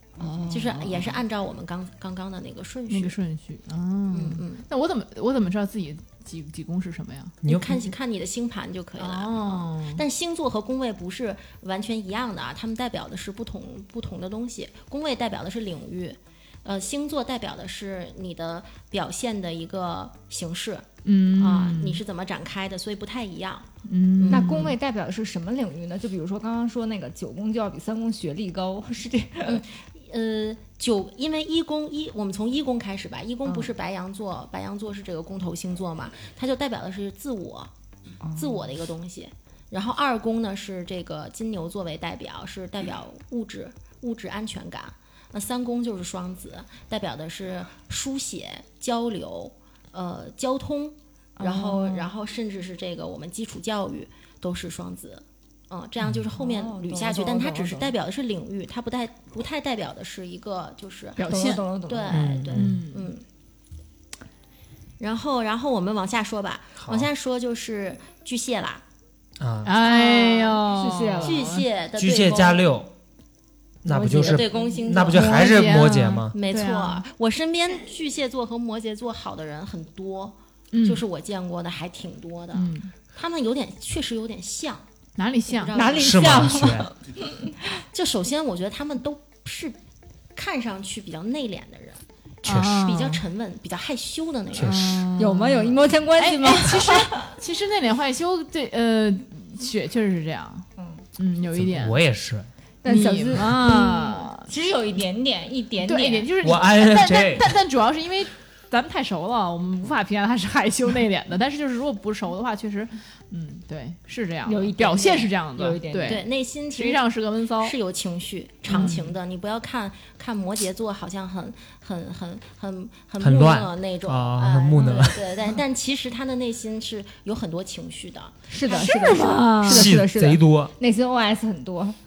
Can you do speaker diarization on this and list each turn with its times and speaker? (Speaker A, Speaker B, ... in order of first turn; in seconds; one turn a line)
Speaker A: 0.2-1.2
Speaker B: 0.5-3.1
Speaker C: 2.9-7.4
Speaker B: 4.1-4.6
Speaker D: 7.4-7.8
Speaker B: 7.4-24.7
Speaker C: 9.0-10.0
Speaker C: 21.0-22.0
Speaker C: 23.9-24.7
Speaker A: 24.3-29.6
Speaker B: 29.4-37.7
Speaker A: 33.4-33.7
Speaker A: 38.2-38.6
Speaker B: 38.3-63.2
Speaker A: 51.4-52.1
Speaker A: 56.3-57.9
Speaker C: 61.2-61.6
Speaker A: 61.2-62.3
Speaker D: 62.1-62.8
Speaker C: 62.5-63.1
Speaker B: 65.0-68.8
Speaker D: 66.8-67.1
Speaker D: 69.4-69.7
Speaker C: 69.6-71.7
Speaker B: 69.8-70.6
Speaker A: 70.7-71.6
Speaker B: 71.2-72.7
Speaker D: 72.0-72.9
Speaker D: 73.8-76.4
Speaker B: 73.8-75.5
Speaker A: 74.2-74.9
Speaker C: 75.0-77.0
Speaker B: 76.3-84.8
Speaker C: 80.7-81.0
Speaker C: 82.5-82.9
Speaker C: 85.2-85.7
Speaker B: 85.5-86.5
Speaker A: 85.7-87.5
Speaker D: 86.0-86.9
Speaker B: 87.9-89.8
Speaker B: 90.3-92.0
Speaker D: 92.4-93.0
Speaker C: 92.4-93.2
Speaker B: 92.8-95.0
Speaker D: 94.5-95.1
Speaker C: 94.6-100.7
Speaker A: 95.2-97.3
Speaker A: 100.8-101.0
Speaker C: 101.2-102.0
Speaker D: 101.5-102.5
Speaker A: 102.8-106.3
Speaker C: 102.8-104.5
Speaker C: 105.8-117.7
Speaker D: 106.4-107.5
Speaker A: 114.5-116.2
Speaker B: 116.0-117.0
Speaker B: 117.6-128.3
Speaker C: 118.7-119.1
Speaker D: 123.2-125.3
Speaker A: 128.5-132.0
Speaker C: 128.7-129.9
Speaker D: 129.7-130.7